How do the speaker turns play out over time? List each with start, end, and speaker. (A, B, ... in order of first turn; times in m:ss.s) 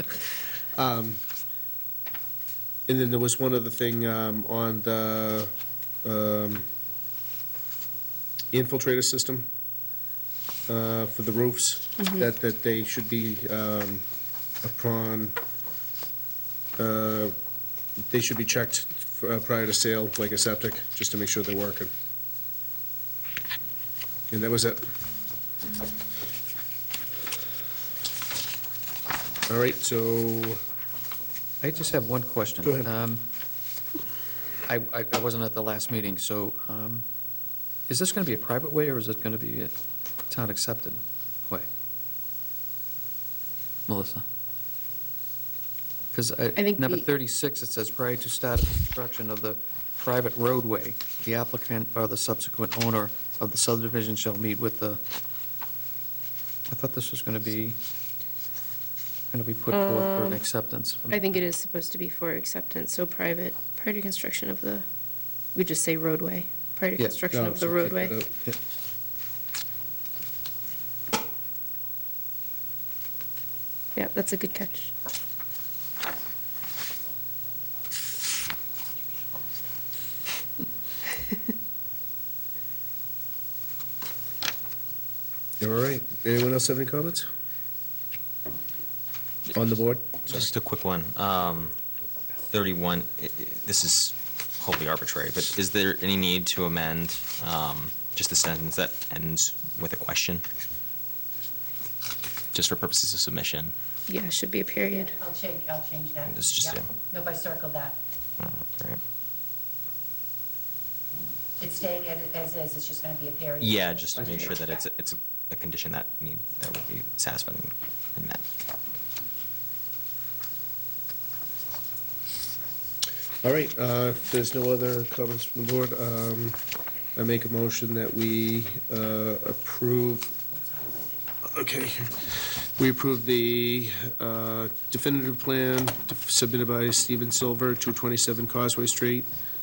0:00.7-0:01.2 A
0:02.9-0:05.5 A
0:06.0-0:06.6 A
0:08.5-0:09.4 A
0:10.7-0:14.0 A
0:12.0-0:12.2 B
0:14.6-0:15.4 A
0:16.8-0:17.3 A
0:18.1-0:21.9 A
0:24.3-0:24.8 A
0:29.5-0:30.6 A
0:31.6-0:33.3 C
0:32.6-0:32.9 A
0:34.7-0:37.0 C
0:37.9-0:39.8 C
0:40.3-0:41.7 C
0:43.9-0:44.2 C
0:46.1-0:55.0 C
0:46.5-0:47.1 B
0:56.7-0:57.8 C
0:59.3-1:01.4 C
0:59.7-1:00.4 B
1:01.1-1:04.8 B
1:05.5-1:08.2 B
1:07.0-1:07.2 C
1:07.3-1:08.4 A
1:14.0-1:14.9 B
1:25.6-1:27.3 A
1:29.5-1:30.3 A
1:30.2-1:31.7 D
1:32.5-1:40.4 D
1:42.5-1:43.7 D
1:44.1-1:45.1 B
1:44.9-1:48.0 E
1:46.3-1:46.9 D
1:48.4-1:49.0 D
1:51.6-1:54.8 E
1:53.6-1:58.4 D
2:03.4-2:06.6 A
2:07.1-2:10.3 A
2:10.5-2:11.2 E
2:11.4-2:19.3 A